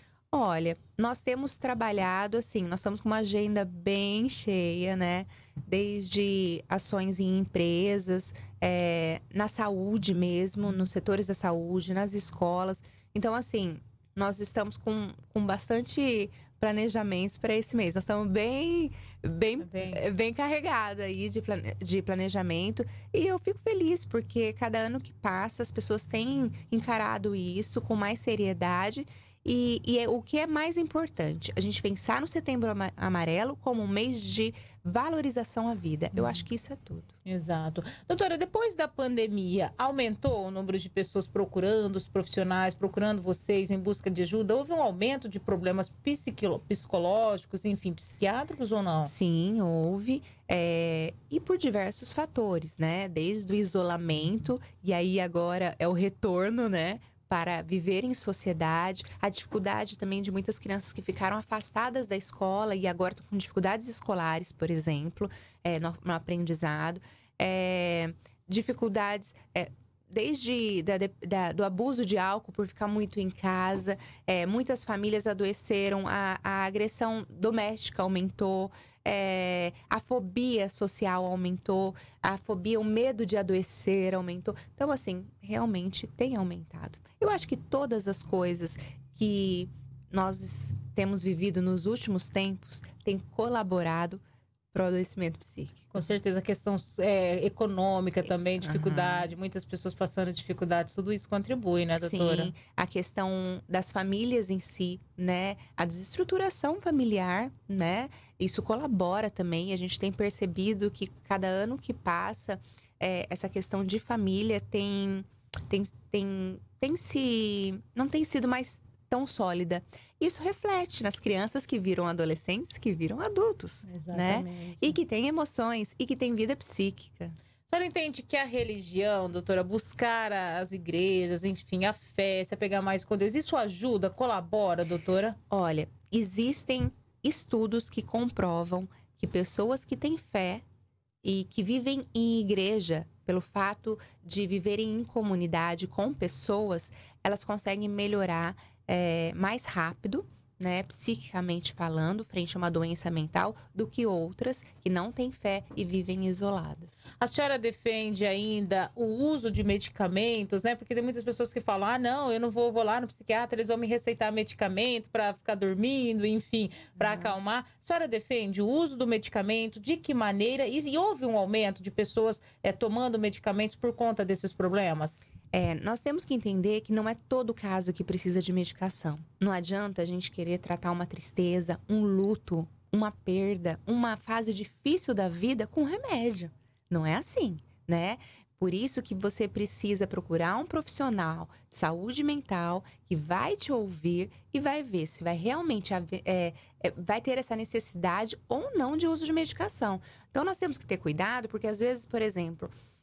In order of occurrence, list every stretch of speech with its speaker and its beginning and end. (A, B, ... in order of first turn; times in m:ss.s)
0:00.3-0:37.1 A
0:19.6-0:20.0 B
0:37.2-0:49.1 B
0:49.0-1:34.2 A
1:34.7-1:35.9 A
1:35.9-1:42.5 B
1:38.6-1:39.3 A
1:42.0-2:07.4 A
2:03.9-2:05.0 B
2:07.7-2:15.4 B
2:15.5-2:20.6 A
2:21.2-2:36.9 A
2:37.2-2:55.2 B
2:55.5-3:22.7 A